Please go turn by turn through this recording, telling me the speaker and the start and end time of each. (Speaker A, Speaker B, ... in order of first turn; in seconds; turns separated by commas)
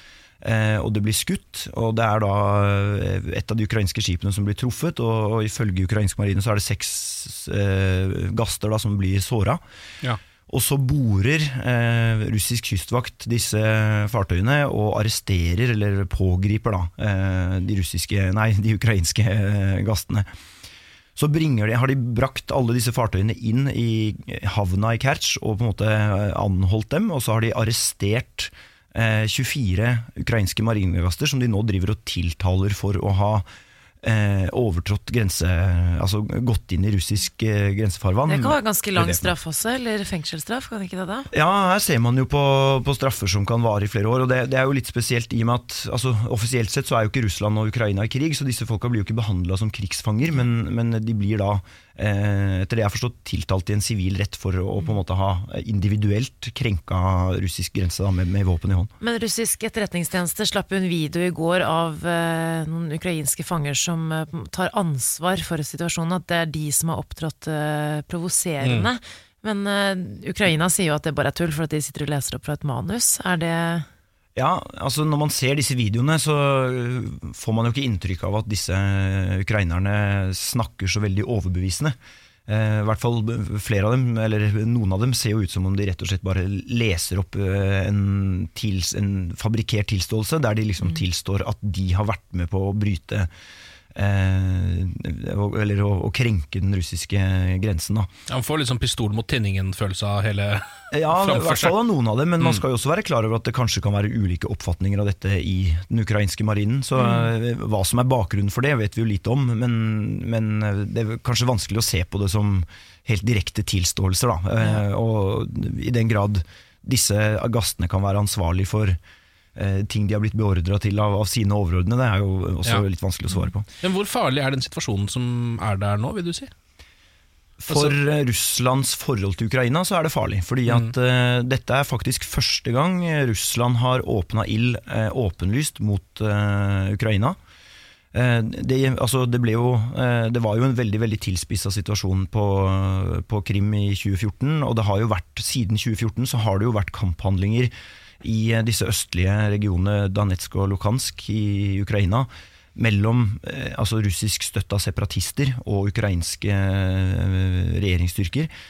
Speaker A: 0.4-9.6, Speaker A: 10.5-20.3, Speaker A: 21.1-33.4, Speaker A: 34.0-39.3, Speaker B: 38.3-41.3, Speaker A: 41.3-58.9, Speaker B: 59.0-73.9, Speaker C: 68.6-68.9, Speaker A: 74.3-82.0, Speaker A: 82.5-93.3, Speaker A: 93.9-98.1, Speaker C: 98.3-101.7, Speaker A: 100.9-119.0, Speaker B: 107.0-107.3, Speaker B: 114.6-114.8, Speaker A: 119.5-123.7, Speaker C: 123.8-126.5, Speaker A: 127.6-137.4, Speaker C: 127.7-128.0, Speaker A: 138.1-158.5